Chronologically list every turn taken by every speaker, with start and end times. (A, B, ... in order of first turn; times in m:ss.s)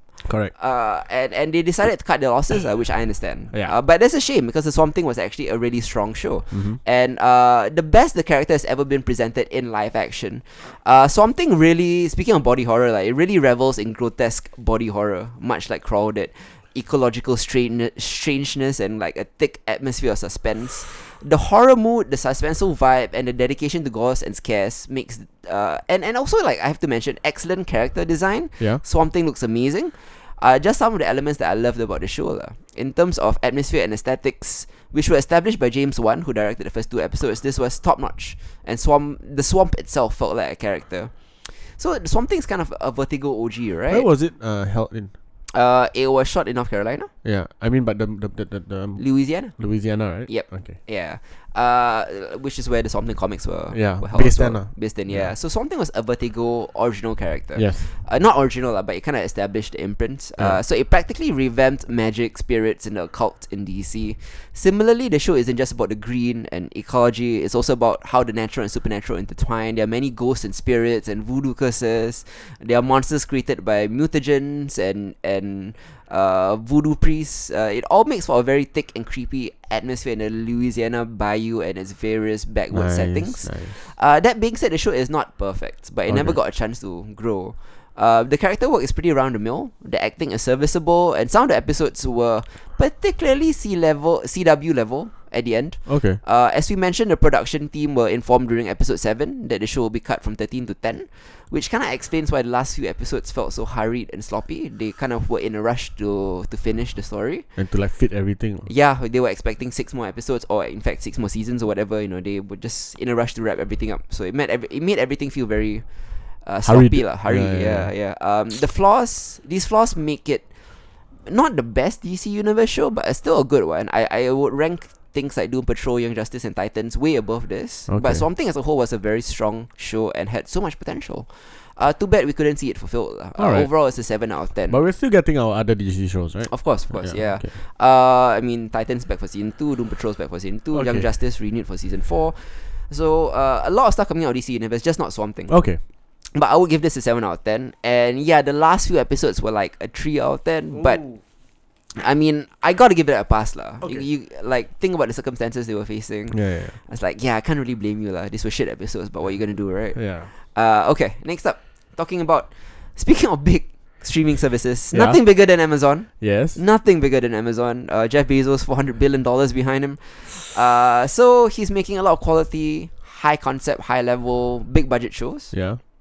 0:00.2-0:00.5 A
0:00.4-0:44.1 B
0:06.5-0:06.8 A
0:43.9-0:45.1 A
0:45.5-0:47.1 B
0:47.2-0:50.8 A
0:49.0-1:47.5 B
0:53.7-0:55.3 A
0:57.5-0:57.9 A
1:22.7-1:23.9 A
1:26.1-1:26.4 A
1:35.8-1:36.2 A
1:47.6-1:48.7 A
1:48.6-2:14.8 B
1:56.6-1:57.9 A
2:07.9-2:08.2 A
2:13.4-2:17.5 A
2:16.5-2:31.2 B
2:20.7-2:21.1 A
2:25.5-2:25.8 A
2:30.7-2:31.2 A
2:32.0-2:55.7 B
2:33.8-2:34.1 A
2:36.3-2:36.8 A
2:39.3-2:40.3 A
2:44.9-2:46.6 A
2:55.5-2:55.8 A